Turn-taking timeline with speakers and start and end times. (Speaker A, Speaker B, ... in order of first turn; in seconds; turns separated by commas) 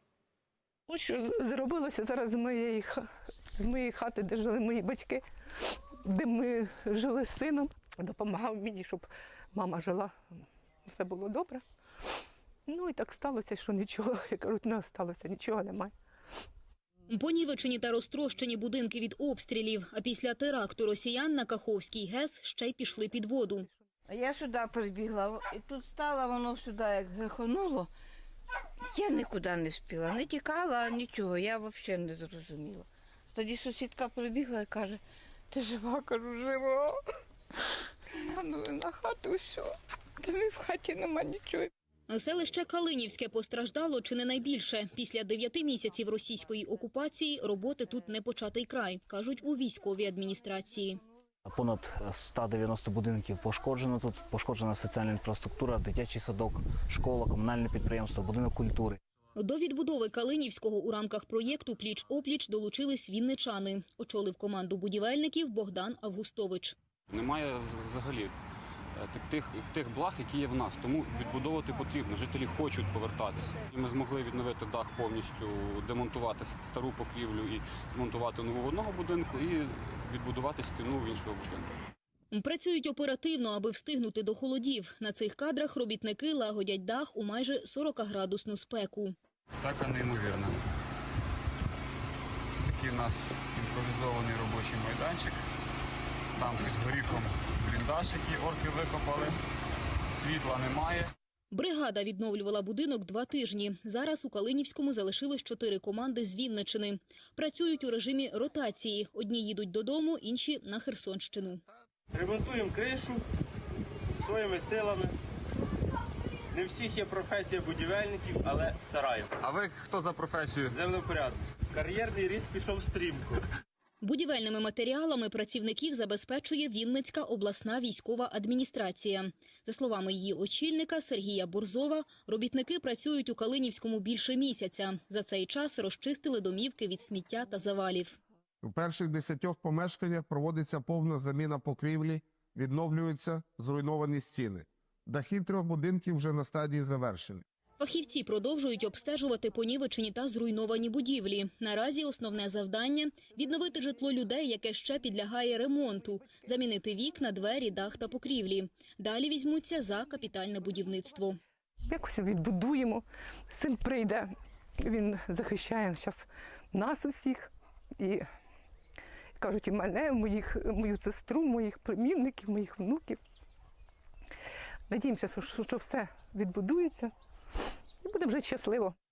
Speaker A: 0.9-3.1, Speaker A: 3.6-10.1, Speaker A: 10.9-11.6, Speaker A: 12.7-15.9, Speaker B: 17.1-23.7, Speaker C: 24.1-27.9, Speaker C: 28.9-36.9, Speaker C: 38.1-41.7, Speaker B: 42.1-51.0, Speaker D: 51.5-59.0, Speaker B: 59.4-66.7, Speaker E: 67.1-68.3, Speaker E: 69.0-81.7, Speaker B: 82.3-89.1, Speaker E: 89.5-90.6, Speaker E: 92.6-95.4, Speaker E: 96.3-99.4, Speaker E: 100.1-101.1, Speaker B: 101.5-111.6, Speaker F: 112.2-113.2, Speaker F: 114.2-115.1, Speaker F: 116.5-119.3, Speaker E: 119.4-120.8, Speaker F: 120.7-123.4, Speaker B: 124.0-138.2, Speaker G: 138.6-147.4, Speaker B: 147.8-161.4, Speaker A: 161.9-168.2, Speaker A: 169.4-173.2, Speaker A: 174.9-177.1, Speaker A: 178.0-178.9